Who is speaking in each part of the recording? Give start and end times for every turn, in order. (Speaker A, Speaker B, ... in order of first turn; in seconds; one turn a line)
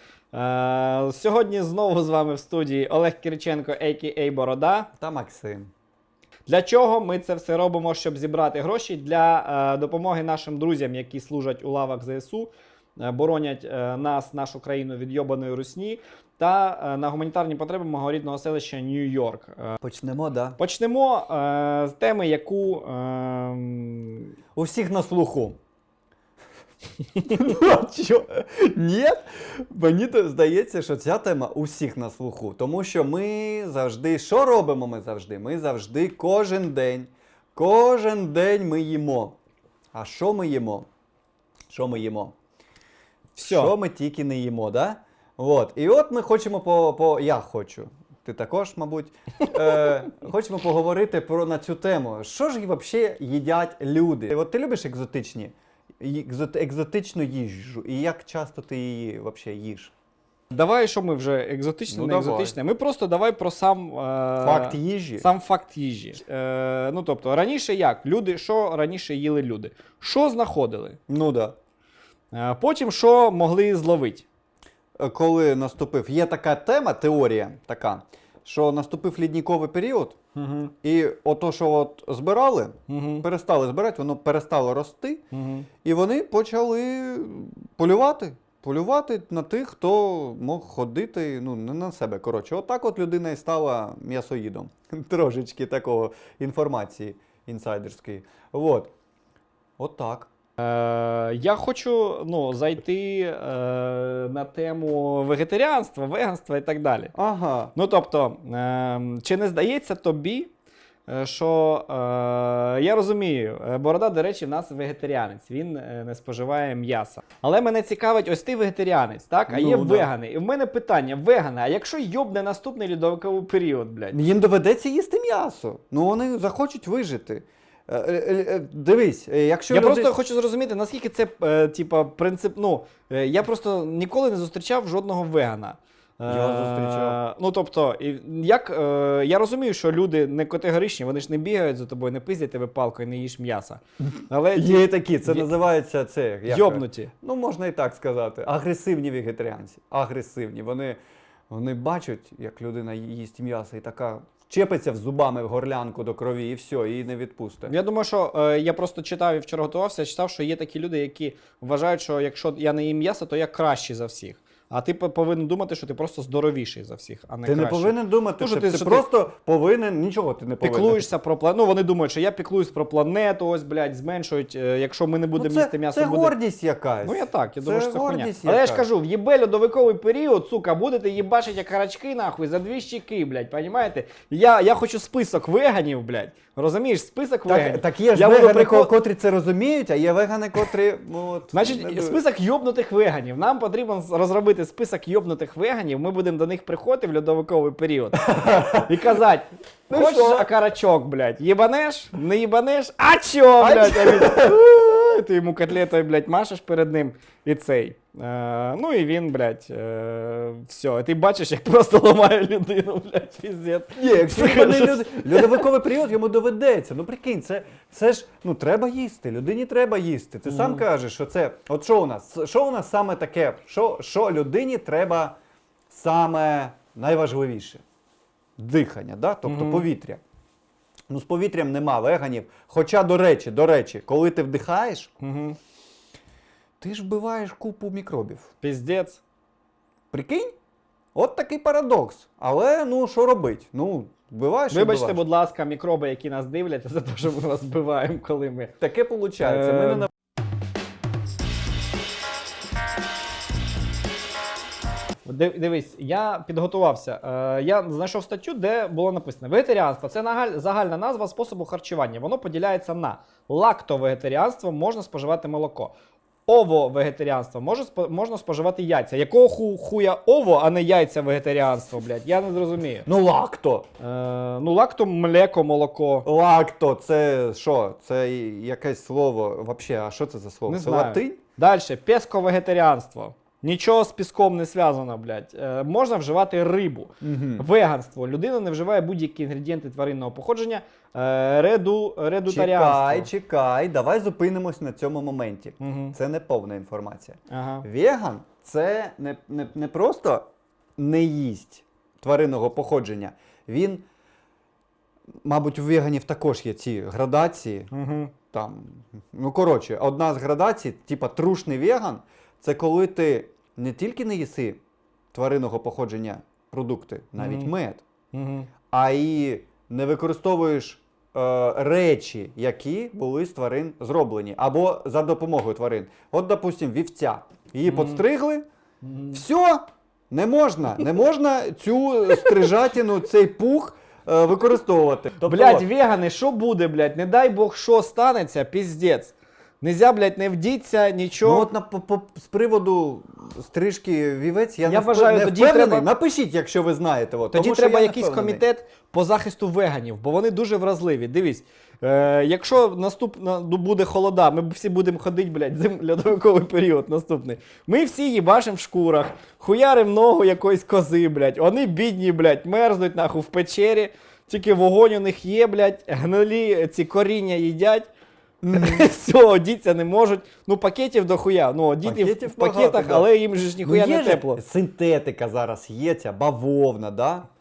Speaker A: 0.3-4.9
Speaker B: 5.0-5.7
Speaker A: 6.5-19.8
Speaker B: 19.8-20.6
Speaker A: 20.6-24.3
Speaker B: 24.6-25.6
Speaker B: 27.2-39.4
Speaker B: 39.9-40.9
Speaker B: 41.7-42.4
Speaker A: 43.4-43.8
Speaker B: 43.4-59.9
Speaker A: 60.5-71.0
Speaker B: 61.9-62.6
Speaker B: 64.4-65.3
Speaker B: 71.1-71.6
Speaker A: 72.3-74.3
Speaker B: 75.0-80.2
Speaker A: 80.3-80.7
Speaker B: 80.8-85.2
Speaker A: 82.9-83.2
Speaker A: 85.3-85.7
Speaker B: 85.8-98.9
Speaker B: 99.8-100.3
Speaker A: 100.6-107.1
Speaker B: 107.2-107.7
Speaker A: 107.8-110.5
Speaker A: 111.1-124.2
Speaker B: 119.5-120.1
Speaker B: 124.1-130.1
Speaker A: 129.7-145.5
Speaker B: 136.3-137.2
Speaker B: 144.5-157.8
Speaker A: 146.5-147.1
Speaker A: 157.7-169.1
Speaker B: 167.5-171.1
Speaker A: 170.6-176.3
Speaker B: 175.4-178.9
Speaker A: 177.0-189.0
Speaker B: 187.5-192.2
Speaker A: 191.5-198.2
Speaker B: 198.2-199.2
Speaker A: 198.8-215.7
Speaker B: 199.9-200.5
Speaker B: 203.6-204.6
Speaker B: 214.0-225.4
Speaker A: 220.5-220.8
Speaker B: 225.9-227.8
Speaker B: 228.6-230.2
Speaker A: 229.5-229.8
Speaker B: 231.1-235.1
Speaker A: 235.2-235.6
Speaker B: 236.8-238.5
Speaker A: 238.6-239.2
Speaker B: 240.1-240.5
Speaker B: 241.2-245.2
Speaker A: 244.7-248.7
Speaker B: 248.8-250.1
Speaker A: 249.4-250.1
Speaker A: 255.2-265.9
Speaker A: 266.5-273.1
Speaker B: 273.1-273.9
Speaker A: 274.0-276.3
Speaker B: 276.2-281.4
Speaker A: 280.7-293.3
Speaker B: 287.2-287.7
Speaker B: 292.5-300.4
Speaker A: 295.8-296.1
Speaker A: 297.5-297.9
Speaker B: 301.0-304.0
Speaker B: 305.4-307.9
Speaker A: 307.9-308.3
Speaker B: 308.5-314.8
Speaker B: 315.3-318.0
Speaker A: 317.4-317.7
Speaker A: 318.3-318.7
Speaker B: 318.9-328.7
Speaker A: 327.9-328.2
Speaker A: 329.0-329.4
Speaker B: 329.3-335.9
Speaker A: 335.4-341.7
Speaker B: 341.4-348.6
Speaker A: 344.9-346.1
Speaker A: 347.5-368.1
Speaker B: 368.6-369.1
Speaker A: 368.7-374.6
Speaker B: 372.0-373.3
Speaker B: 373.8-377.5